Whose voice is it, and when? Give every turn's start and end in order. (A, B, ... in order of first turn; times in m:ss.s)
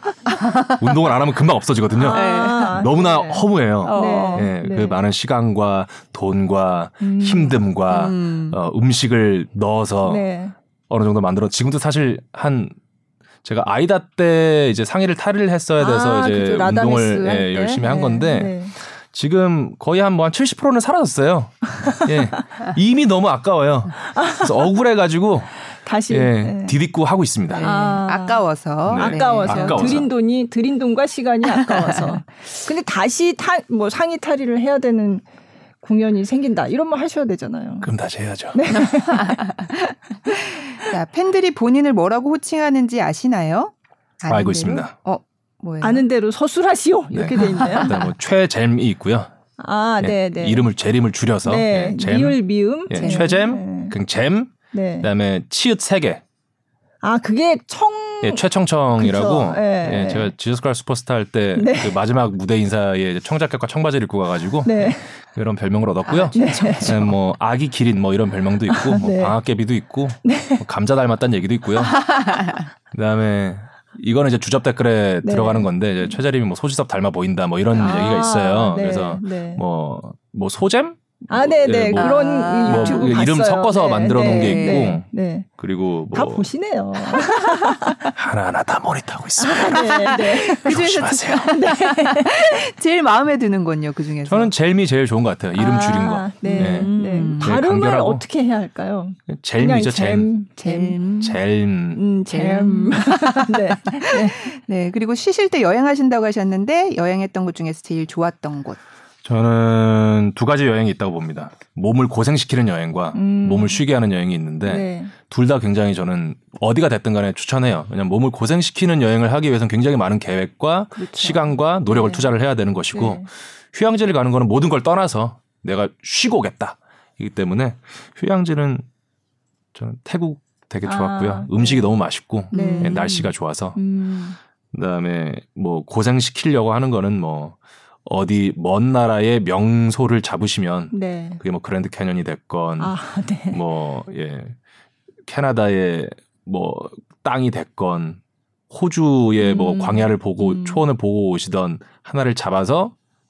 0:00.3-0:00.7 A
0:00.7-0:10.3 B
0:02.0-0:05.0 C
0:02.0-0:02.9 A
0:03.8-0:04.5 A
0:07.0-0:07.6 C
0:07.9-0:08.6 A
0:10.0-0:10.6 C
0:10.9-0:12.8 B
0:13.4-0:27.7 B
0:15.8-0:18.8 C
0:24.1-0:24.5 C
0:25.7-0:26.8 C
0:27.5-0:30.0 A
0:27.6-0:35.3 C
0:28.8-0:30.1 B
0:31.7-0:32.2 A
0:35.8-0:37.9 C
0:37.8-0:38.6 B
0:38.5-0:39.7 C
0:39.0-0:46.0 A
0:44.3-0:44.9 B
0:45.8-0:47.9 C
0:47.1-0:49.3 B
0:47.4-0:48.1 A
0:49.6-0:50.7 C
0:50.0-0:56.2 B
0:51.4-0:54.0 C
0:52.9-0:53.4 A
0:54.7-0:55.1 C
0:57.0-0:58.4 C
0:58.2-1:12.2 B
0:59.0-1:00.3 C
1:01.6-1:02.0 C
1:04.6-1:05.1 C
1:06.1-1:07.1 A
1:06.3-1:07.0 C
1:08.7-1:09.4 C
1:10.2-1:10.6 C
1:12.1-1:12.6 A
1:12.9-1:26.5 B
1:15.2-1:15.7 C
1:17.8-1:19.6 C
1:21.3-1:25.5 C
1:21.9-1:23.3 A
1:24.2-1:24.9 A
1:26.1-1:28.1 C
1:28.2-1:29.8 B
1:29.4-1:30.8 C
1:29.6-1:34.5 A
1:30.5-1:31.5 B
1:31.4-1:32.7 C
1:34.2-1:38.2 B
1:35.6-1:41.0 C
1:36.4-1:37.5 A
1:39.3-1:40.3 B
1:40.6-1:41.4 A
1:41.2-1:42.0 B
1:41.9-1:44.5 C
1:42.3-1:48.8 A
1:49.2-2:08.8 B
1:53.1-1:53.8 C
1:54.6-1:55.1 C
2:01.0-2:01.4 C
2:02.9-2:03.3 C
2:09.8-2:13.8 B
2:10.8-2:11.9 C
2:12.5-2:13.1 C
2:12.5-2:13.3 A
2:13.8-2:14.4 C
2:14.7-2:23.0 B
2:20.9-2:21.4 C
2:22.8-2:23.6 C
2:23.5-2:24.6 B
2:25.3-2:32.9 B
2:29.4-2:30.8 C